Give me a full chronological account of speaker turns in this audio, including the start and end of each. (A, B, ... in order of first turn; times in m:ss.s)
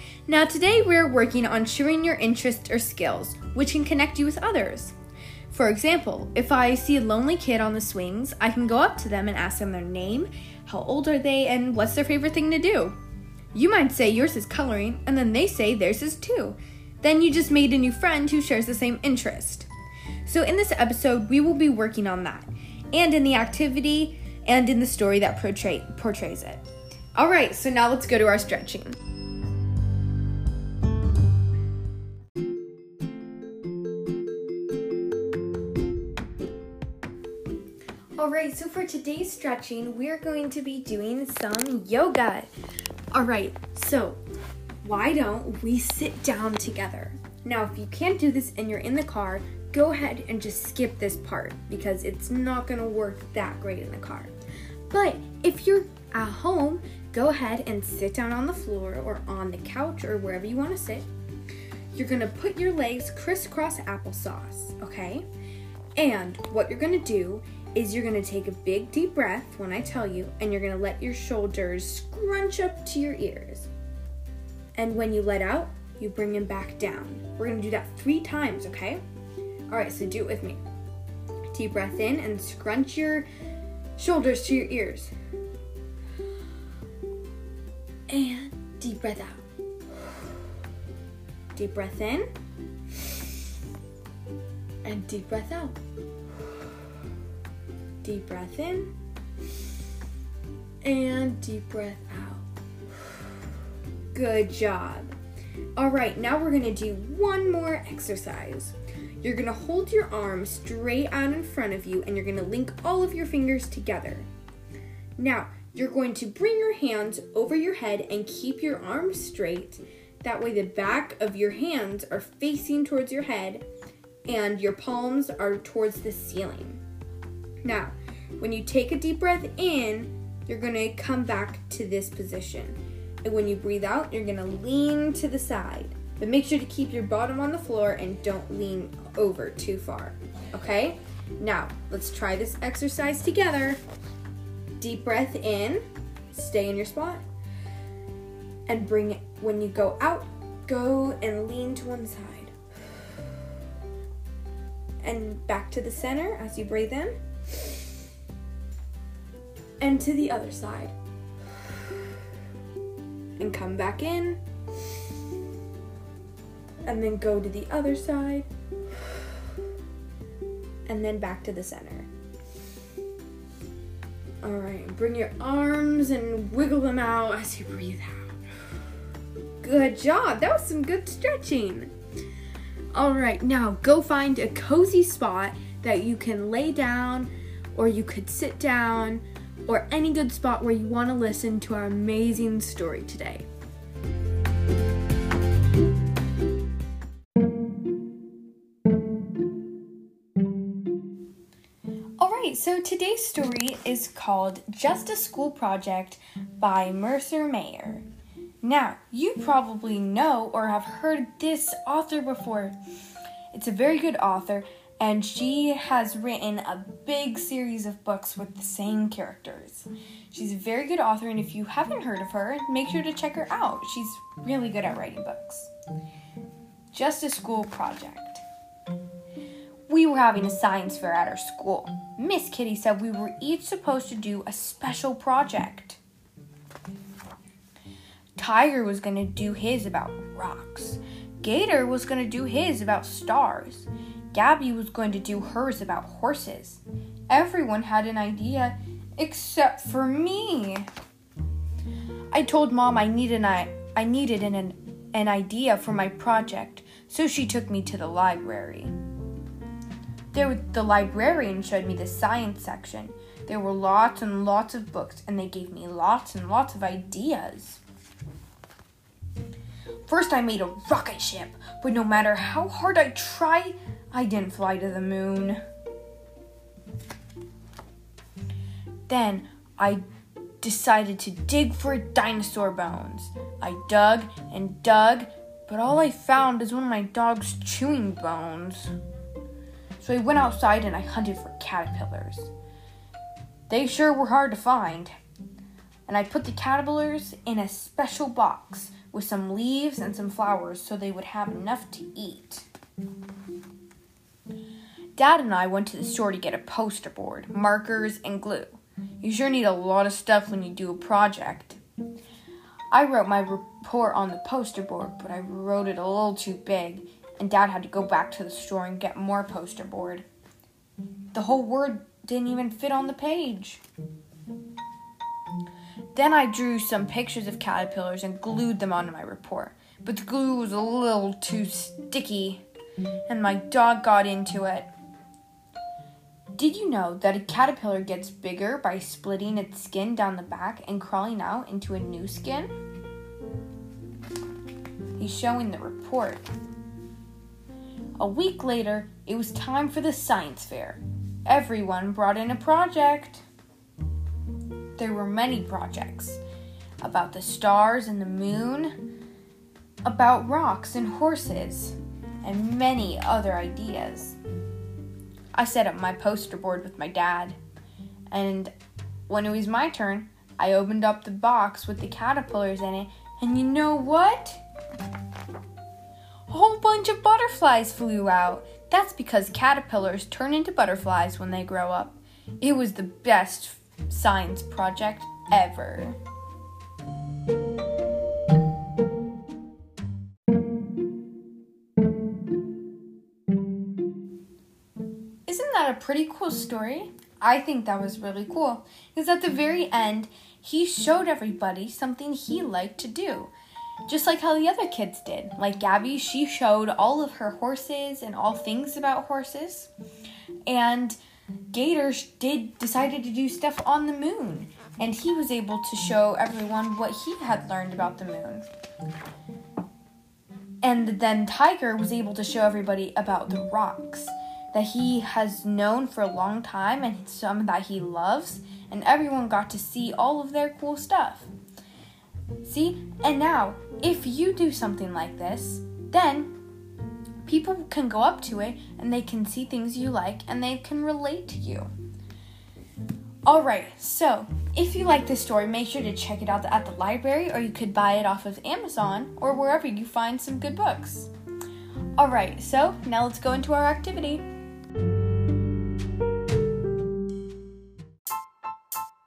0:00.3-0:05.0 A
0:05.5-0:13.0 A
0:13.5-0:19.7 A
0:20.2-0:29.0 A
0:38.2-0:42.5 A
0:43.1-0:44.2 A
0:44.8-0:54.3 A
0:54.9-1:01.1 A
1:01.9-1:05.2 A
1:06.0-1:13.7 A
1:14.8-1:19.0 A
1:19.7-1:20.6 A
1:21.5-1:23.3 A
1:24.0-1:25.1 A
1:28.1-1:29.4 A
1:31.5-1:32.3 A
1:34.8-1:35.8 A
1:38.0-1:38.9 A
1:40.8-1:42.4 A
1:43.0-1:43.3 A
1:44.1-1:45.2 A
1:45.8-1:54.3 A
1:55.2-2:03.6 A
2:04.2-2:06.8 A
2:07.6-2:23.8 A
2:24.8-2:27.2 A
2:28.7-2:32.5 A
2:35.0-2:37.8 A
2:39.8-2:40.9 A
2:43.4-2:44.4 A
2:46.8-2:48.5 A
2:50.9-2:52.1 A
2:54.4-2:58.4 A
2:59.6-3:01.9 A
3:02.9-3:13.5 A
3:22.2-3:28.0 A
3:28.6-3:32.8 A
3:33.5-3:45.7 A
3:46.9-3:48.4 A
3:49.9-3:56.0 A
3:58.4-4:10.9 A
4:12.3-4:18.9 A
4:20.3-4:27.8 A
4:30.1-4:35.6 A
4:39.1-4:40.0 A
4:40.6-4:48.9 A
4:50.0-4:52.5 A
4:53.7-4:55.1 A
4:56.1-5:02.7 A
5:05.1-5:11.8 A
5:12.9-5:20.2 A
5:21.3-5:23.8 A
5:26.1-5:32.6 A
5:33.3-5:34.9 A
5:36.5-5:42.7 A
5:45.2-5:46.4 A
5:48.2-5:53.4 A
5:55.0-5:56.4 A
5:57.0-5:59.0 A
6:00.0-6:04.4 A
6:05.5-6:07.6 A
6:08.3-6:08.7 A
6:09.3-6:14.6 A
6:16.5-6:26.2 A
6:35.5-6:43.5 A
6:44.0-6:49.9 A
6:50.7-6:51.2 A
6:51.7-6:58.7 A
7:00.8-7:11.5 A
7:12.6-7:16.5 A
7:17.4-7:21.9 A
7:23.4-7:31.3 A
7:32.2-7:34.4 A